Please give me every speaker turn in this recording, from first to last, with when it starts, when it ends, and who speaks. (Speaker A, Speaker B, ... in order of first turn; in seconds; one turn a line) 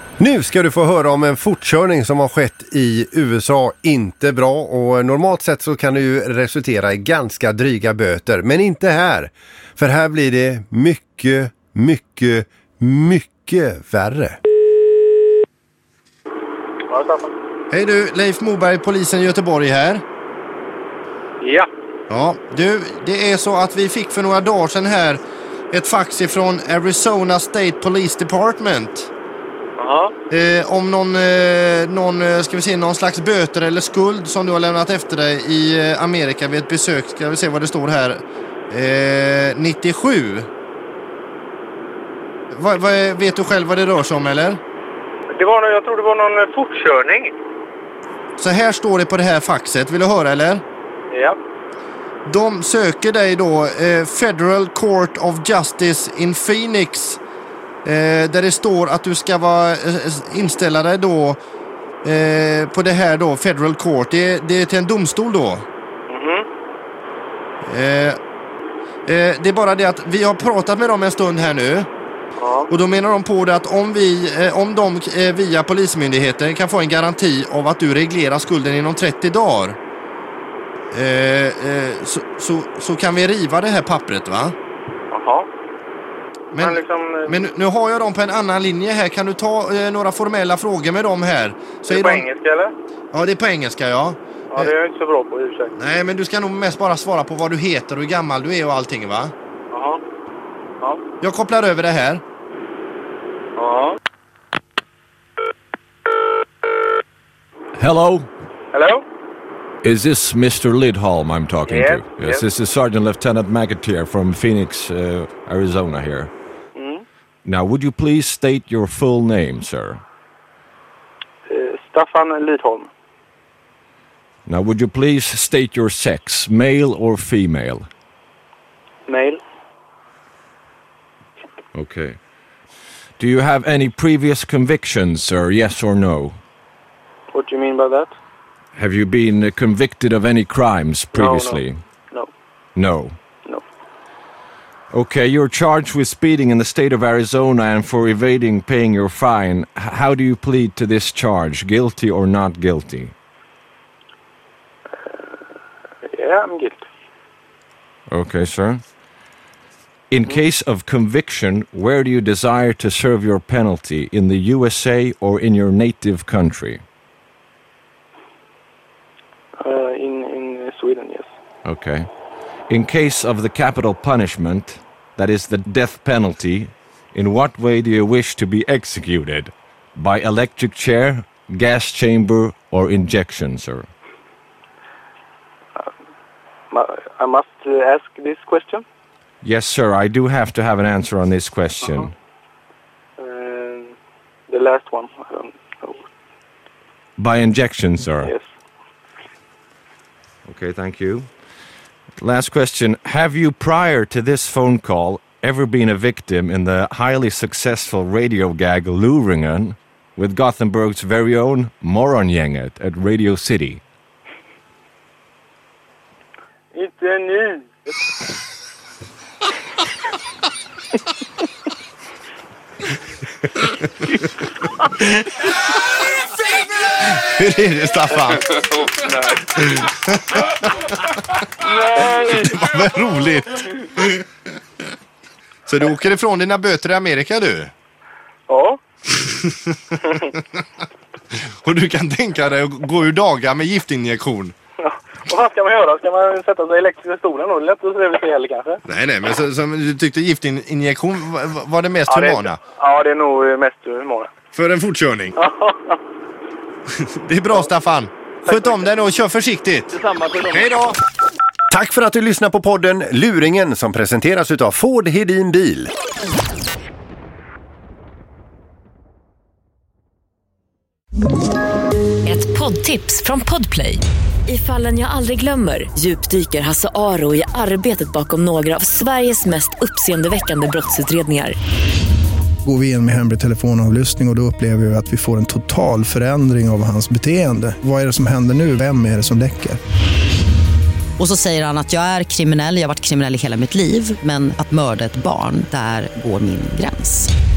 Speaker A: 0.2-14.4
Speaker B: 16.9-17.3
Speaker C: 17.7-20.0
Speaker B: 21.4-21.7
Speaker C: 22.1-29.1
Speaker B: 29.8-30.1
Speaker C: 30.3-40.5
Speaker C: 42.5-44.6
Speaker B: 45.3-47.3
Speaker C: 48.4-50.6
Speaker B: 51.1-51.4
Speaker C: 52.3-57.2
Speaker C: 57.9-61.4
Speaker C: 62.0-65.7
Speaker B: 66.1-66.5
Speaker C: 67.7-68.2
Speaker C: 69.1-71.9
Speaker B: 72.4-72.7
Speaker C: 72.7-79.8
Speaker C: 80.9-84.5
Speaker B: 85.1-85.5
Speaker C: 86.5-86.8
Speaker B: 86.6-87.4
Speaker C: 87.3-92.3
Speaker B: 91.9-92.7
Speaker C: 93.1-94.7
Speaker B: 94.5-95.7
Speaker C: 95.8-99.3
Speaker B: 99.7-100.0
Speaker C: 101.2-102.2
Speaker B: 103.6-104.0
Speaker D: 107.8-108.3
Speaker B: 108.7-109.0
Speaker D: 109.8-116.3
Speaker B: 111.7-112.4
Speaker B: 116.8-117.0
Speaker D: 117.5-120.0
Speaker B: 121.5-122.9
Speaker D: 124.5-127.9
Speaker B: 129.1-129.4
Speaker D: 131.7-132.2
Speaker D: 133.2-136.4
Speaker B: 137.3-138.1
Speaker D: 138.8-141.8
Speaker B: 141.1-142.3
Speaker D: 142.8-143.2
Speaker D: 144.9-153.1
Speaker B: 156.1-156.8
Speaker D: 158.1-158.8
Speaker D: 160.1-166.8
Speaker B: 169.6-171.3
Speaker D: 171.7-172.1
Speaker D: 172.7-183.9
Speaker B: 186.7-188.8
Speaker D: 189.4-192.1
Speaker B: 193.2-193.9
Speaker B: 194.5-196.0
Speaker D: 197.2-198.3
Speaker D: 200.5-201.3
Speaker D: 202.2-213.8
Speaker B: 216.7-217.9
Speaker C: 227.3-228.4
Speaker C: 232.2-233.6
Speaker C: 235.7-237.7
Speaker B: 238.5-238.8
Speaker C: 241.6-244.5
Speaker B: 244.8-248.8
Speaker C: 248.9-252.5
Speaker B: 252.1-254.3
Speaker C: 254.5-255.4
Speaker B: 255.4-256.0
Speaker C: 257.2-259.9
Speaker B: 258.5-258.7
Speaker C: 260.4-260.9
Speaker A: 261.7-265.9
Speaker E: 272.2-281.6
Speaker F: 282.6-289.8
Speaker G: 291.2-297.3